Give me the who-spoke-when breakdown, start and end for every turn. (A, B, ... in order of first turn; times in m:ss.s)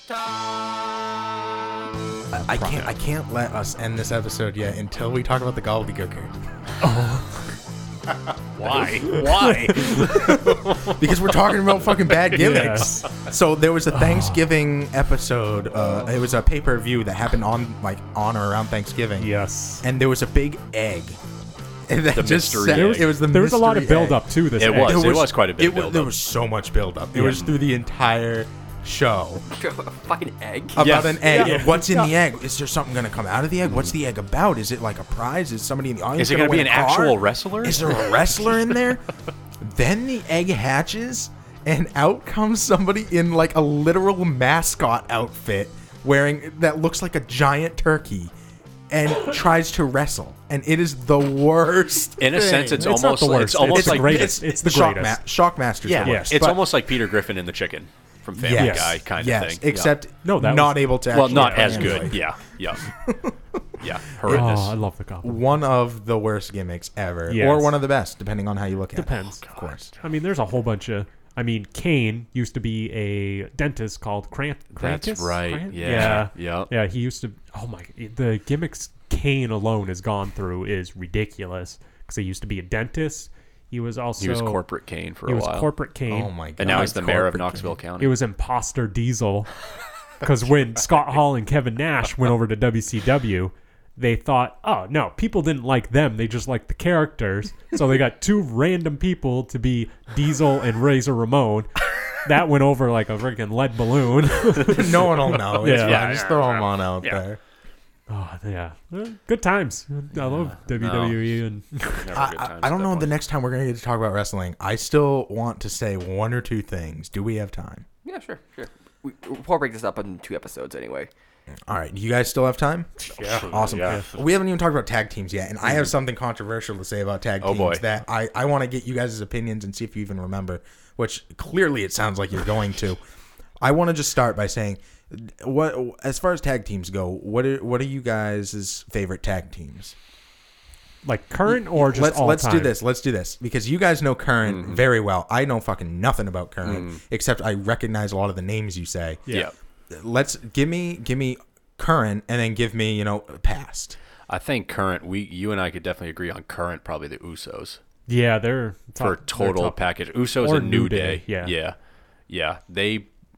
0:02.3-0:06.3 A
0:02.6-0:02.9 B
0:06.8-0:07.5 C
0:08.6-0:11.0 B
0:09.1-0:10.3 C
0:10.0-0:19.3 A
0:12.3-0:12.9 B
0:12.3-0:13.1 C
0:13.9-0:14.4 C
0:19.2-0:19.8 C
0:19.8-0:21.2 A
0:21.9-0:29.4 A
0:22.1-0:23.1 B
0:22.7-0:25.2 C
0:24.6-0:26.1 B
0:27.2-0:27.5 C
0:29.6-0:31.1 D
0:30.8-0:39.0 A
0:30.8-0:31.8 B
0:31.3-0:32.1 C
0:36.2-0:38.2 B
0:39.6-0:48.3 A
0:48.9-0:52.9 A
0:52.2-0:54.4 B
0:52.8-0:55.2 C
0:53.7-0:56.8 A
0:55.8-1:00.0 B
0:56.0-0:56.4 C
0:58.4-1:02.2 A
0:58.6-0:59.0 C
1:00.2-1:02.2 C
1:01.1-1:02.8 B
1:02.9-1:04.5 A
1:03.8-1:04.8 B
1:04.3-1:05.4 C
1:05.2-1:09.9 A
1:07.3-1:07.8 C
1:08.9-1:09.4 C
1:09.4-1:10.0 B
1:10.0-1:24.6 C
1:14.8-1:16.7 B
1:24.2-1:25.7 B
1:25.3-1:26.9 C
1:26.1-1:27.8 A
1:26.6-1:28.2 B
1:28.0-1:29.5 C
1:30.2-1:46.1 C
1:44.7-1:47.4 A
1:45.5-1:47.2 B
1:48.1-1:52.1 C
1:50.2-1:51.3 B
1:52.0-1:53.1 B
1:52.1-1:57.8 A
1:58.0-2:01.1 D
2:01.7-2:13.0 A
2:03.1-2:04.1 C
2:03.1-2:04.0 B
2:07.4-2:07.8 B
2:13.6-2:20.0 A
2:21.0-2:22.7 C
2:21.5-2:29.3 A
2:24.4-2:24.8 B
2:26.6-2:27.0 B
2:29.9-2:34.0 A
2:34.3-2:37.8 B
2:38.1-2:41.6 C
2:39.0-2:41.8 B
2:42.3-2:43.1 B